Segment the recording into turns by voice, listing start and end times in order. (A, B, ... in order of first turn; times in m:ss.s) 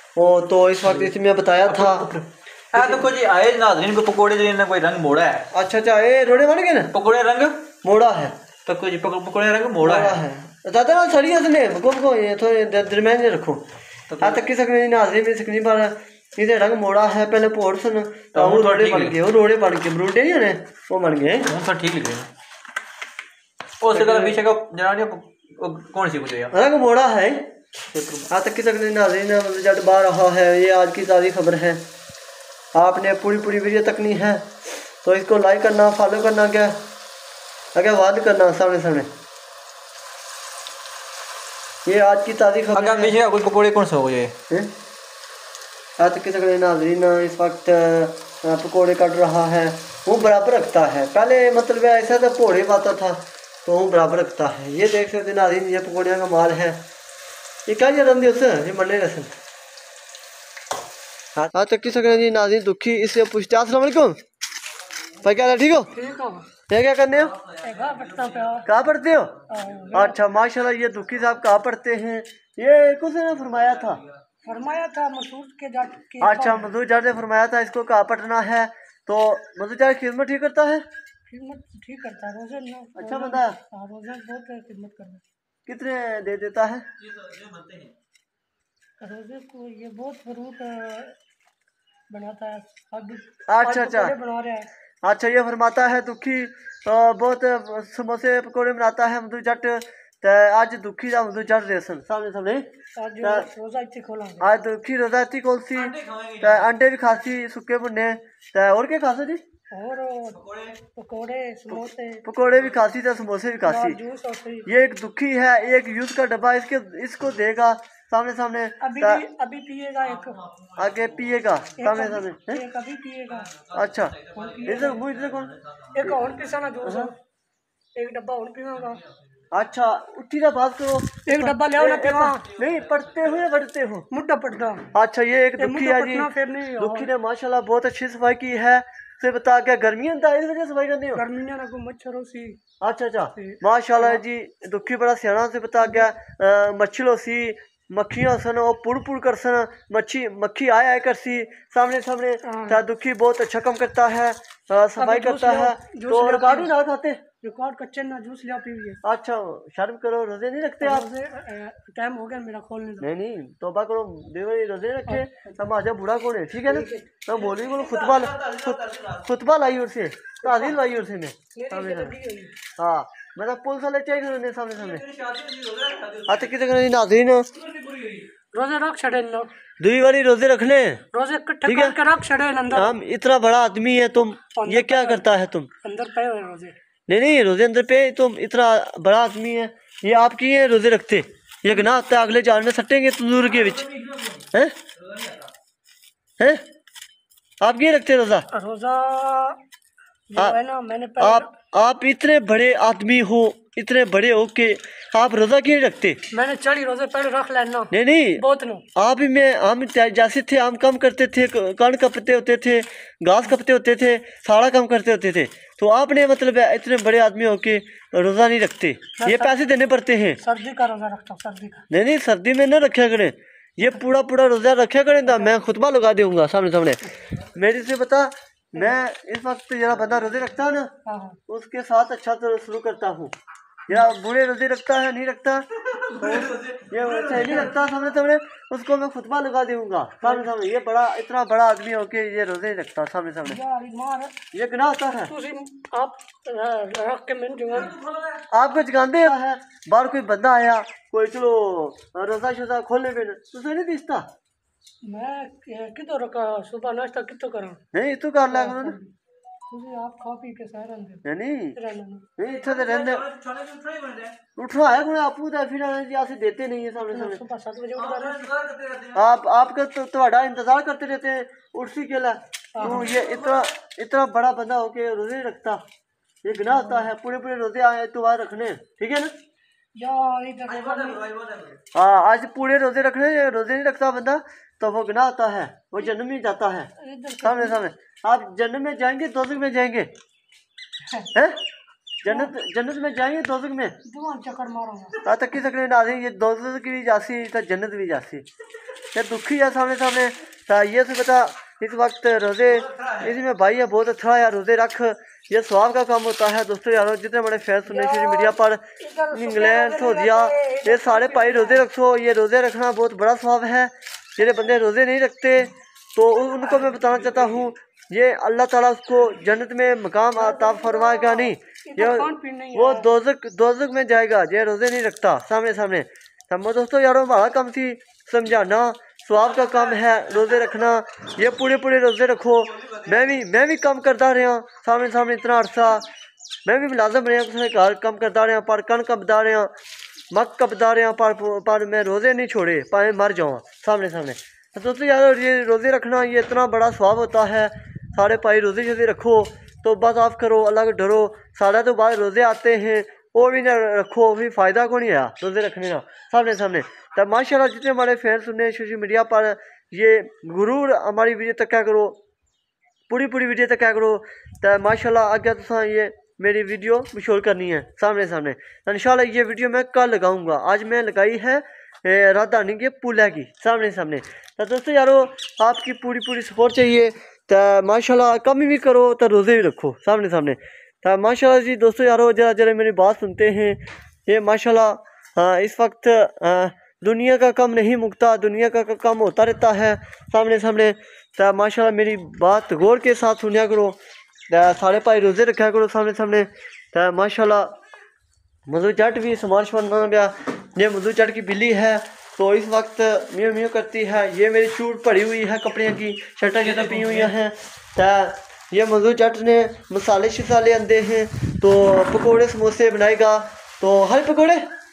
0:00.2-0:02.1 A
0:00.8-0:01.1 B
0:01.7-0:05.5 B
0:05.5-0:06.9 A
0:06.9-0:07.6 B
0:07.8-0:08.4 A
0:08.7-0:10.2 B
0:09.8-0:13.6 A
0:14.1-0:14.4 B
0:14.2-0:21.5 A
0:18.3-0:19.2 B
0:21.4-0:22.3 B
0:23.8-0:26.5 B
0:23.9-0:24.4 A
0:26.5-0:27.5 A
0:27.9-0:28.3 B
0:28.3-0:31.8 A
0:32.8-0:36.8 A
0:37.8-0:39.1 A
0:41.8-0:43.2 A
0:42.7-0:44.3 B
0:46.0-0:56.8 A
0:57.7-0:59.3 A
1:01.4-1:04.2 A
1:05.2-1:05.9 A
1:05.9-1:06.5 C
1:06.7-1:07.4 A
1:07.6-1:08.7 C
1:08.0-1:08.3 B
1:08.6-1:09.4 A
1:09.5-1:10.2 C
1:09.9-1:14.0 A
1:14.4-1:16.7 C
1:16.2-1:20.8 A
1:21.3-1:25.2 C
1:23.0-1:23.6 A
1:25.7-1:26.8 A
1:27.0-1:27.9 B
1:29.0-1:31.2 C
1:32.1-1:34.7 C
1:33.5-1:34.2 A
1:35.0-1:42.7 A
1:43.0-1:44.5 C
1:43.2-1:43.5 A
1:44.4-1:49.4 A
1:45.8-1:46.7 B
1:49.7-1:50.4 C
1:50.4-1:50.8 B
1:51.0-1:52.2 C
1:51.7-1:54.0 A
1:53.6-1:54.7 C
1:54.7-1:59.2 A
1:58.8-2:00.4 C
2:00.0-2:01.4 B
2:00.8-2:02.6 A
2:01.8-2:03.6 C
2:03.3-2:06.5 B
2:03.7-2:05.5 A
2:04.4-2:05.0 C
2:05.9-2:07.2 C
2:06.8-2:07.1 A
2:08.0-2:09.0 C
2:09.5-2:14.1 A
2:11.2-2:12.5 C
2:12.6-2:13.4 B
2:14.1-2:14.9 C
2:14.9-2:21.2 A
2:15.6-2:17.1 C
2:21.2-2:22.6 C
2:22.8-2:37.2 A
2:23.4-2:24.2 C
2:32.4-2:32.8 C
2:35.0-2:36.7 C
2:37.4-2:39.0 C
2:39.0-2:41.1 A
2:40.8-2:43.1 C
2:43.0-2:52.2 A
2:45.1-2:45.5 C
2:46.7-2:47.1 C
2:47.5-2:49.2 B
2:50.4-2:50.8 C
2:51.5-2:52.5 C
2:52.8-2:55.0 A
2:54.8-2:56.5 B
2:56.3-2:57.5 A
2:57.6-2:58.3 B
2:58.5-2:59.5 C
2:59.8-3:01.0 A
3:01.1-3:03.0 C
3:01.7-3:02.0 A
3:02.7-3:05.7 A
3:04.6-3:05.2 C
3:05.8-3:06.8 C
3:07.1-3:14.0 A
3:13.5-3:14.4 B
3:15.1-3:15.5 B
3:17.6-3:18.5 A
3:18.5-3:19.6 C
3:20.3-3:21.5 C
3:21.2-3:26.2 A
3:26.3-3:28.9 C
3:27.9-3:28.4 A
3:29.0-3:40.4 A
3:39.2-3:39.5 C
3:40.4-3:41.8 C
3:41.9-3:50.9 A
3:51.1-3:51.4 C
3:51.5-3:53.4 A
3:53.9-4:03.6 A
3:56.1-3:56.6 C
3:56.6-3:57.3 B
3:57.2-3:57.8 C
4:00.2-4:00.5 C
4:03.4-4:04.4 C
4:04.5-4:05.3 A
4:05.3-4:08.0 C
4:07.9-4:08.4 B
4:08.5-4:14.3 A
4:15.0-4:17.8 C
4:17.9-4:19.0 A
4:18.4-4:19.1 C
4:19.7-4:21.2 C
4:21.2-4:21.8 A
4:21.8-4:22.3 C
4:22.4-4:23.3 A
4:22.5-4:24.4 B
4:24.6-4:27.4 A
4:27.1-4:28.5 C
4:28.0-4:29.2 B
4:29.1-4:35.8 A
4:32.8-4:33.2 C
4:36.4-4:39.3 A
4:36.6-4:37.1 C
4:40.0-4:41.2 C
4:40.7-4:41.8 B
4:41.9-4:46.9 A
4:47.0-4:47.8 C
4:47.4-4:50.1 A
4:51.3-4:51.6 A
4:52.2-4:54.0 A
4:52.3-4:52.5 C
4:54.0-4:55.2 C
4:55.2-4:58.5 A
4:59.1-5:08.8 A
5:02.8-5:03.3 B
5:07.9-5:11.8 C
5:09.3-5:36.1 A
5:14.4-5:14.7 C
5:16.5-5:17.7 C
5:20.3-5:23.1 C
5:36.7-5:39.7 A
5:40.3-6:02.2 A
6:03.1-6:34.0 A
6:34.5-6:37.7 A
6:38.7-6:54.6 A
6:46.6-6:47.3 B